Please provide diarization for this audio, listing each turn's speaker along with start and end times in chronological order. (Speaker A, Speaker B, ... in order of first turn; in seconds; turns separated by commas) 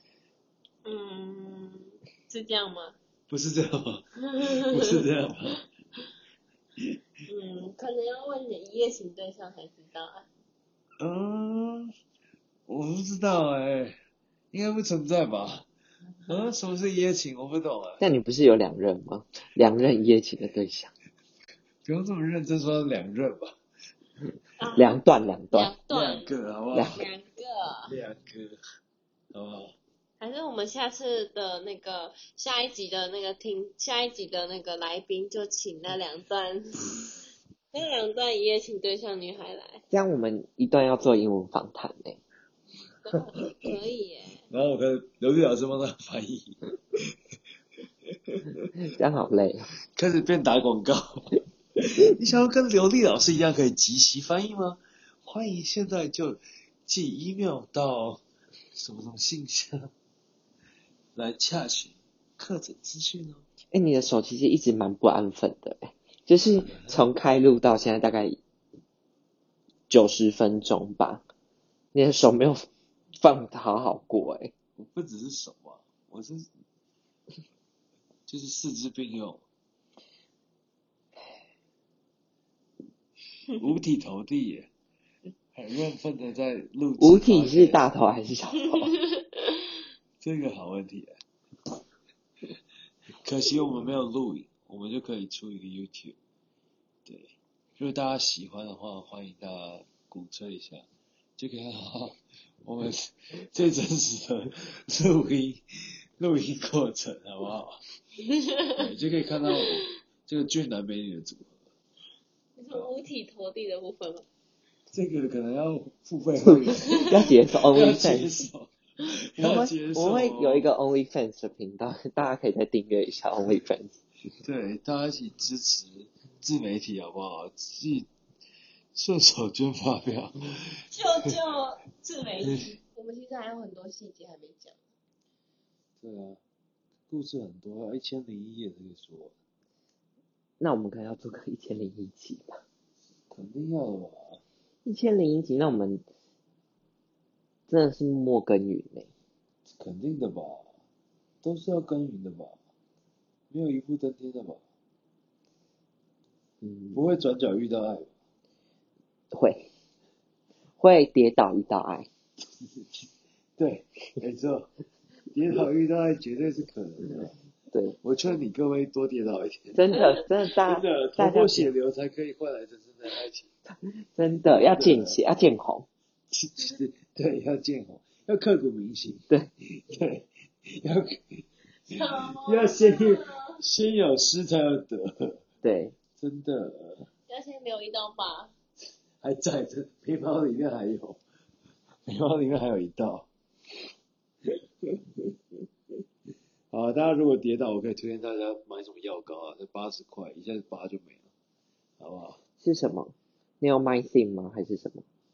Speaker A: 0.8-3.0, Speaker B: 3.3-5.6, Speaker A: 4.3-4.8, Speaker A: 7.3-10.3, Speaker B: 11.0-11.9, Speaker B: 12.7-14.0, Speaker B: 14.5-15.7, Speaker B: 16.3-18.0, Speaker C: 18.0-20.9, Speaker B: 21.8-23.6, Speaker A: 24.6-24.9, Speaker C: 24.8-25.7, Speaker A: 25.5-26.3, Speaker B: 25.9-27.0, Speaker C: 26.7-27.0, Speaker A: 26.9-27.9, Speaker B: 27.9-28.6, Speaker B: 29.3-29.7, Speaker A: 30.2-37.0, Speaker A: 37.7-39.8, Speaker C: 39.9-42.2, Speaker A: 43.0-44.4, Speaker B: 44.5-47.0, Speaker B: 48.3-48.8, Speaker C: 48.8-49.7, Speaker B: 49.9-58.2, Speaker B: 58.7-59.9, Speaker B: 61.1-63.4, Speaker C: 63.7-68.4, Speaker B: 66.7-67.0, Speaker C: 69.9-71.3, Speaker C: 71.9-74.5, Speaker B: 74.8-76.5, Speaker B: 78.3-79.4, Speaker B: 83.6-84.7, Speaker B: 85.5-87.8, Speaker C: 87.0-88.9, Speaker B: 90.2-91.2, Speaker B: 93.2-96.2, Speaker B: 97.0-100.8, Speaker B: 101.4-105.6, Speaker B: 106.2-107.8, Speaker A: 108.3-108.7, Speaker B: 108.7-111.6, Speaker A: 112.5-114.2, Speaker B: 114.9-120.7, Speaker C: 116.5-118.4, Speaker C: 119.4-124.0, Speaker B: 124.4-128.1, Speaker B: 128.9-130.8, Speaker A: 130.9-134.8, Speaker B: 132.4-132.7, Speaker B: 136.0-136.4, Speaker B: 137.1-139.3, Speaker C: 140.6-142.6, Speaker B: 143.3-144.4, Speaker C: 144.8-146.0, Speaker C: 147.7-149.1, Speaker B: 149.7-150.7, Speaker B: 151.4-152.6, Speaker B: 153.5-154.6, Speaker C: 156.6-157.0, Speaker B: 156.9-158.1, Speaker C: 159.3-159.7, Speaker C: 160.8-162.1, Speaker B: 162.4-164.7, Speaker B: 165.3-167.3, Speaker C: 167.7-168.0, Speaker B: 168.0-170.0, Speaker C: 169.7-171.7, Speaker B: 170.5-173.5, Speaker C: 173.8-175.9, Speaker B: 174.5-175.2, Speaker B: 176.3-185.4, Speaker A: 181.9-183.6, Speaker C: 185.6-185.9, Speaker B: 186.2-187.1, Speaker A: 187.3-188.5, Speaker B: 189.2-191.2, Speaker B: 192.1-193.3, Speaker B: 196.7-201.3, Speaker B: 202.0-202.4, Speaker C: 202.6-205.0